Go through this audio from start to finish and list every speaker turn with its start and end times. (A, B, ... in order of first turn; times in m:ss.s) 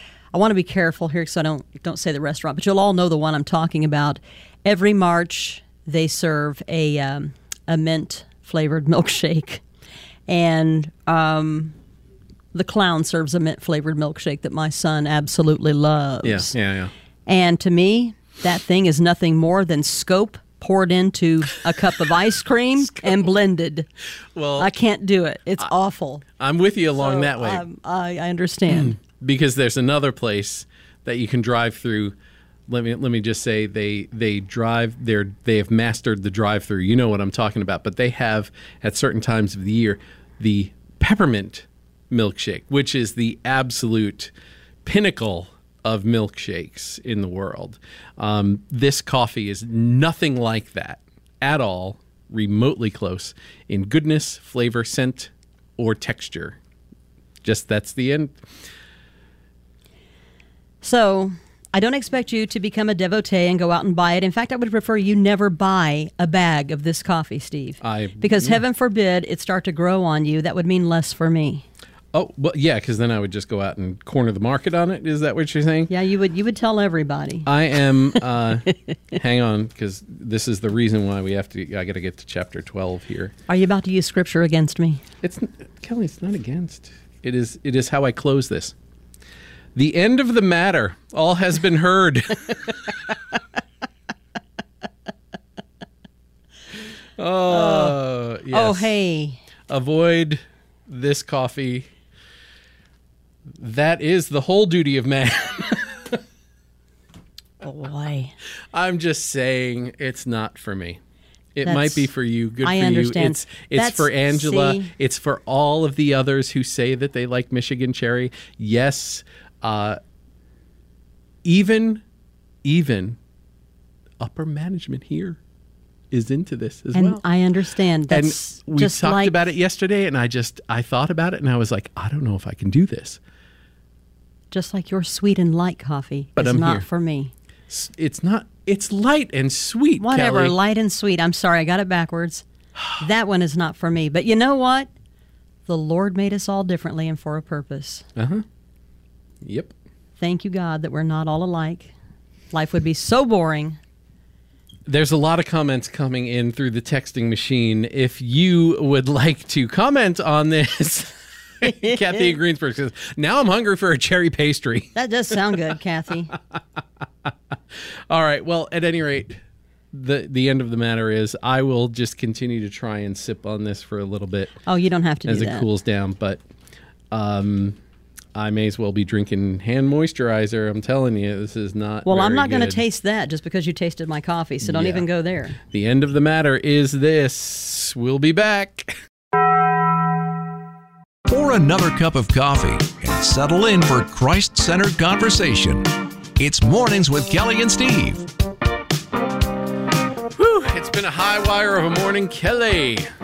0:00.3-0:09.6 A
0:10.3-0:11.8 A
0:12.5-0:16.5 A
0:16.2-0:16.9 B
0:17.2-0:23.9 A
0:24.3-0:24.7 B
0:24.6-0:26.2 A
0:26.4-0:27.6 B
0:27.0-0:28.9 A
0:28.7-0:32.1 B
0:32.7-0:44.3 B
0:44.8-0:56.6 B
0:57.4-0:58.4 B
1:00.8-1:11.6 A
1:07.8-1:08.6 B
1:12.1-1:15.9 B
1:15.9-1:17.5 A
1:17.4-1:23.3 B
1:23.5-1:25.0 A
1:25.2-1:28.7 B
1:29.8-1:32.9 B
1:37.2-1:39.0 B
1:37.5-1:38.0 A
1:38.5-1:39.4 A
1:39.7-1:41.9 B
1:43.6-1:46.2 B
1:47.6-1:48.3 A
1:48.7-1:51.0 B
1:51.5-2:00.0 B
1:51.6-1:52.1 A
1:52.6-1:54.9 A
2:01.4-2:02.0 B
2:02.6-2:03.2 B
2:04.2-2:05.4 B
2:06.1-2:07.2 B
2:06.9-2:09.4 A
2:08.1-2:13.2 B
2:14.5-2:17.3 A
2:16.4-2:16.8 B
2:17.7-2:20.5 B
2:20.0-2:22.4 A
2:23.0-2:24.9 A
2:25.7-2:28.0 A
2:28.2-2:28.4 B
2:29.4-2:29.7 B
2:30.2-2:31.9 A
2:32.5-2:33.8 A
2:34.8-2:44.9 B
2:41.6-2:42.3 A
2:44.9-2:46.4 A
2:48.1-2:49.4 B
2:49.9-2:54.5 B
2:54.6-2:55.7 A
2:55.2-2:56.4 B
2:57.1-2:57.8 B
2:58.3-3:02.8 B
3:02.0-3:05.6 A
3:04.6-3:05.1 B
3:05.7-3:08.9 B
3:11.3-3:18.2 C
3:20.3-3:23.1 B